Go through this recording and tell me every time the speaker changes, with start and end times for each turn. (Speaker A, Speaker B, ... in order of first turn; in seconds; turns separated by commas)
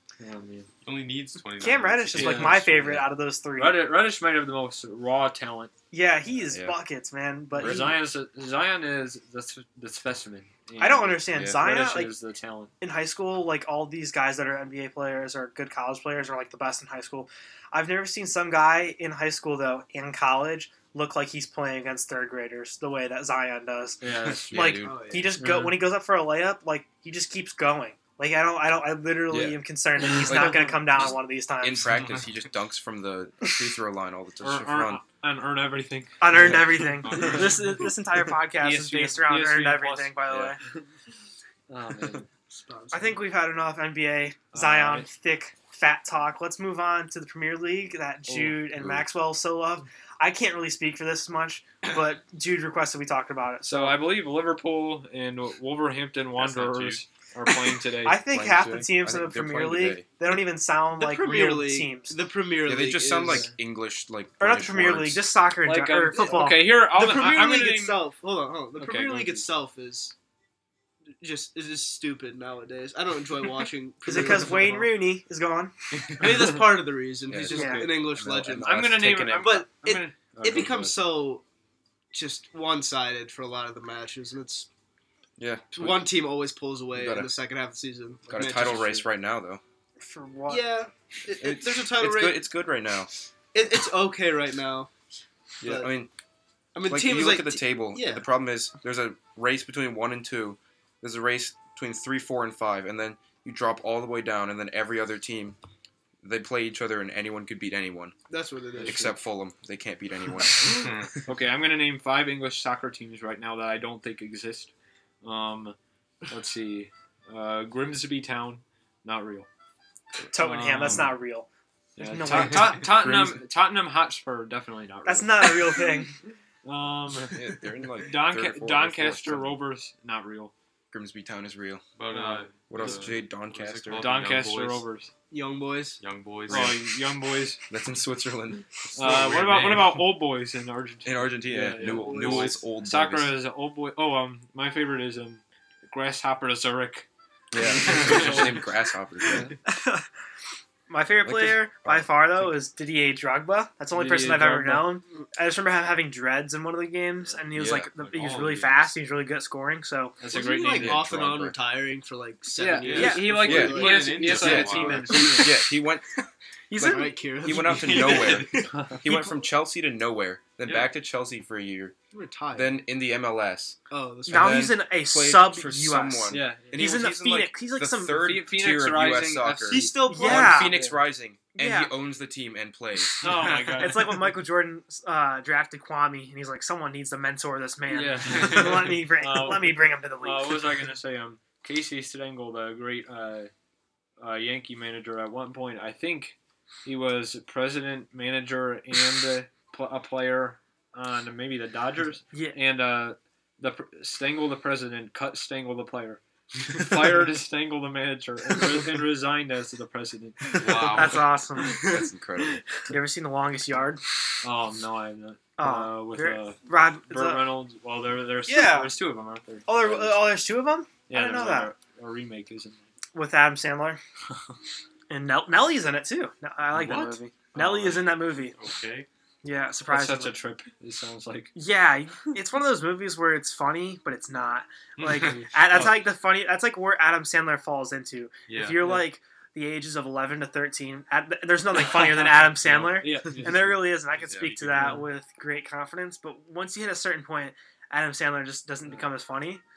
Speaker A: 0.2-0.7, Speaker B: 0.8-2.6, Speaker C: 1.6-3.9, Speaker A: 2.1-2.6, Speaker D: 2.2-3.1, Speaker A: 3.6-5.7, Speaker C: 5.9-8.0, Speaker D: 6.5-6.8, Speaker A: 7.6-12.7, Speaker D: 7.6-8.0, Speaker C: 10.8-12.1, Speaker D: 11.3-11.6, Speaker C: 12.8-31.9, Speaker A: 24.0-24.6, Speaker D: 24.2-25.0, Speaker E: 24.8-25.4, Speaker A: 25.4-25.8, Speaker D: 29.3-29.6, Speaker A: 30.2-30.5, Speaker D: 30.2-35.0, Speaker B: 31.9-32.2, Speaker A: 34.4-37.5, Speaker C: 36.2-40.6, Speaker B: 36.9-37.8, Speaker A: 38.6-40.8, Speaker D: 40.3-40.6, Speaker A: 41.7-42.3, Speaker E: 42.5-43.3, Speaker C: 42.9-54.0, Speaker A: 44.5-45.1, Speaker A: 48.3-48.7, Speaker D: 48.8-49.1, Speaker A: 53.6-58.2, Speaker B: 56.4-57.0, Speaker C: 58.0-62.2, Speaker D: 58.3-60.1, Speaker E: 61.0-63.5, Speaker D: 62.7-65.3, Speaker A: 63.2-63.5, Speaker C: 64.4-66.7, Speaker A: 65.6-68.0, Speaker E: 66.9-70.1, Speaker A: 68.8-69.5, Speaker E: 71.2-74.8, Speaker C: 74.1-76.3, Speaker A: 74.3-74.9, Speaker E: 76.1-81.4, Speaker D: 77.3-79.6, Speaker C: 77.5-77.9, Speaker A: 77.5-77.9, Speaker A: 78.6-81.0, Speaker E: 82.1-84.7, Speaker D: 85.4-86.1, Speaker E: 85.7-89.0, Speaker D: 86.9-87.3, Speaker D: 88.3-89.6, Speaker C: 90.0-90.7, Speaker E: 90.5-92.5, Speaker D: 91.4-93.1, Speaker E: 93.5-94.9, Speaker E: 95.6-95.9, Speaker D: 95.6-96.1, Speaker E: 96.8-98.3, Speaker D: 96.9-105.6, Speaker D: 106.2-108.2, Speaker E: 108.3-109.1, Speaker A: 108.8-109.2, Speaker D: 108.8-110.9, Speaker B: 110.7-111.1, Speaker A: 111.3-114.7, Speaker A: 115.2-115.8, Speaker A: 116.3-119.5, Speaker C: 120.3-121.5, Speaker A: 120.4-121.2, Speaker A: 122.0-125.8, Speaker C: 122.0-122.9, Speaker D: 122.8-123.4, Speaker C: 125.0-126.2, Speaker A: 126.7-130.5, Speaker D: 127.3-129.6, Speaker D: 130.9-131.8, Speaker B: 132.0-134.8, Speaker A: 132.1-133.1, Speaker D: 132.7-134.1, Speaker A: 133.9-135.1, Speaker E: 135.3-136.0, Speaker B: 136.0-136.8, Speaker D: 136.5-136.8, Speaker A: 136.5-137.6, Speaker D: 137.7-139.3, Speaker A: 138.9-147.1, Speaker B: 139.0-140.1, Speaker D: 141.0-143.3, Speaker E: 141.8-142.6, Speaker D: 147.5-149.5, Speaker A: 147.6-148.6, Speaker B: 147.9-148.4, Speaker A: 149.2-149.6, Speaker C: 149.7-150.1, Speaker C: 150.9-160.2, Speaker D: 151.2-152.1, Speaker A: 153.9-155.0, Speaker D: 157.5-157.9, Speaker B: 158.0-158.9, Speaker A: 160.2-161.1, Speaker E: 160.3-164.4, Speaker D: 160.7-161.6, Speaker A: 162.6-165.6, Speaker B: 162.8-165.3, Speaker C: 162.9-163.3, Speaker D: 163.4-166.1, Speaker C: 166.7-167.2, Speaker D: 166.7-171.9, Speaker E: 166.8-168.7, Speaker B: 167.7-168.7, Speaker A: 168.6-169.1, Speaker B: 170.6-170.9, Speaker E: 172.1-172.8, Speaker D: 172.5-183.5, Speaker E: 173.9-174.8, Speaker C: 174.3-178.3, Speaker A: 176.3-176.9, Speaker A: 178.1-181.0, Speaker E: 179.7-180.7, Speaker C: 180.1-180.7, Speaker C: 181.6-181.9, Speaker A: 183.2-184.2, Speaker C: 183.8-190.6, Speaker A: 187.9-193.5, Speaker A: 194.2-211.1, Speaker C: 202.3-202.6, Speaker B: 210.6-211.3, Speaker C: 210.8-211.8, Speaker D: 211.7-212.6, Speaker C: 212.9-214.1, Speaker A: 214.4-220.3, Speaker C: 215.6-217.5, Speaker C: 218.5-218.9, Speaker C: 219.7-221.7, Speaker A: 221.1-222.8, Speaker C: 223.1-224.0, Speaker C: 225.1-228.6, Speaker B: 226.7-229.1, Speaker C: 229.4-230.4, Speaker A: 229.9-231.6, Speaker C: 231.6-249.6, Speaker B: 235.0-235.9, Speaker A: 235.1-236.0, Speaker B: 238.5-238.9, Speaker A: 238.8-239.1, Speaker A: 241.9-243.8, Speaker B: 244.1-245.0, Speaker A: 244.8-245.1